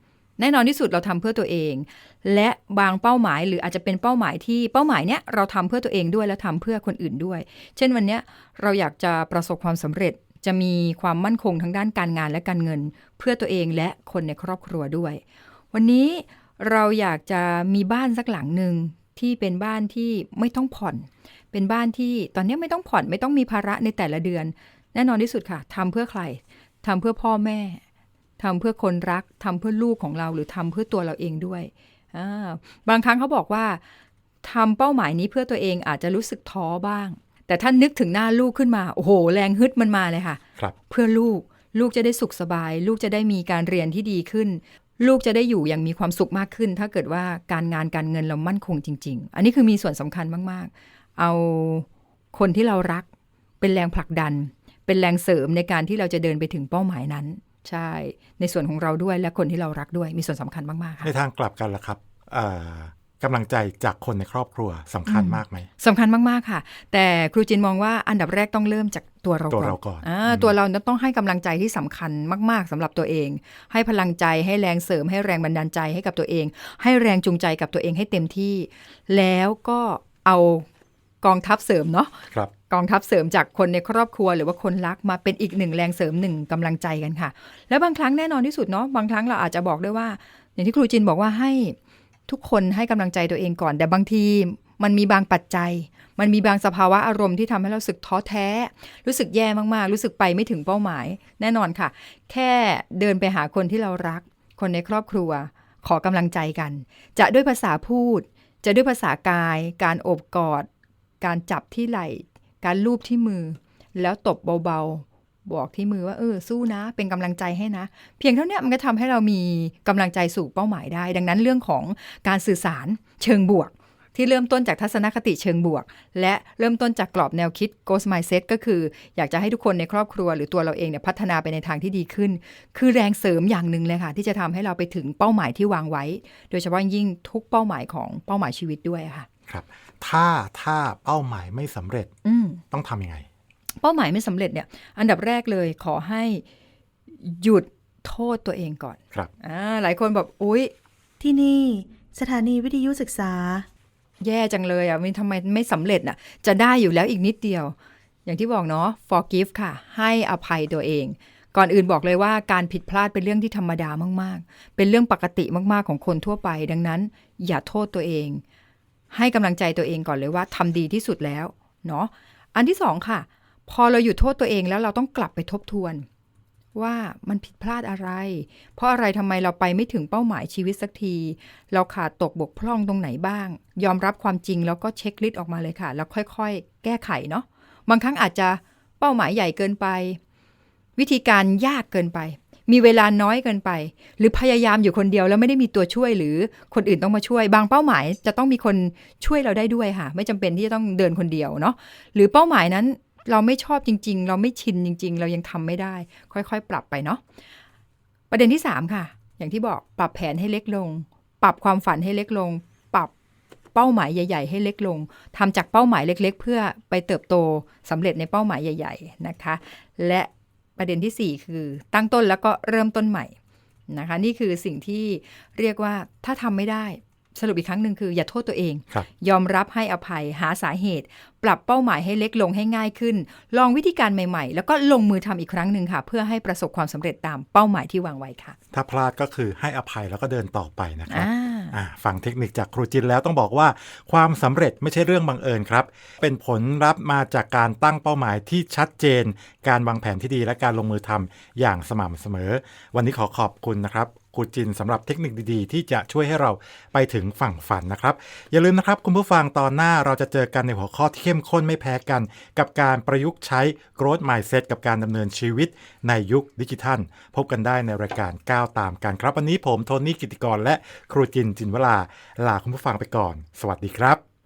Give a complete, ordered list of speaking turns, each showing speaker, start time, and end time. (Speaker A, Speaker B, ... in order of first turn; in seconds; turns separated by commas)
Speaker A: 0.4-15.2, Speaker A: 15.7-27.8, Speaker A: 28.4-33.8, Speaker A: 34.4-53.0, Speaker A: 53.6-61.1, Speaker B: 61.0-65.7, Speaker A: 65.1-80.7, Speaker B: 69.5-70.5, Speaker A: 81.2-91.8, Speaker A: 92.3-110.7, Speaker A: 111.2-139.3, Speaker B: 139.5-142.1, Speaker A: 142.2-142.6, Speaker B: 142.7-143.3, Speaker A: 143.8-146.4, Speaker A: 147.2-150.7, Speaker C: 151.2-153.7, Speaker A: 154.2-157.8, Speaker A: 158.3-168.4, Speaker A: 169.1-176.1, Speaker A: 176.8-190.2, Speaker A: 191.0-207.2, Speaker A: 208.3-213.1, Speaker A: 213.8-223.3, Speaker A: 223.9-238.6, Speaker B: 238.7-274.2, Speaker A: 241.1-241.7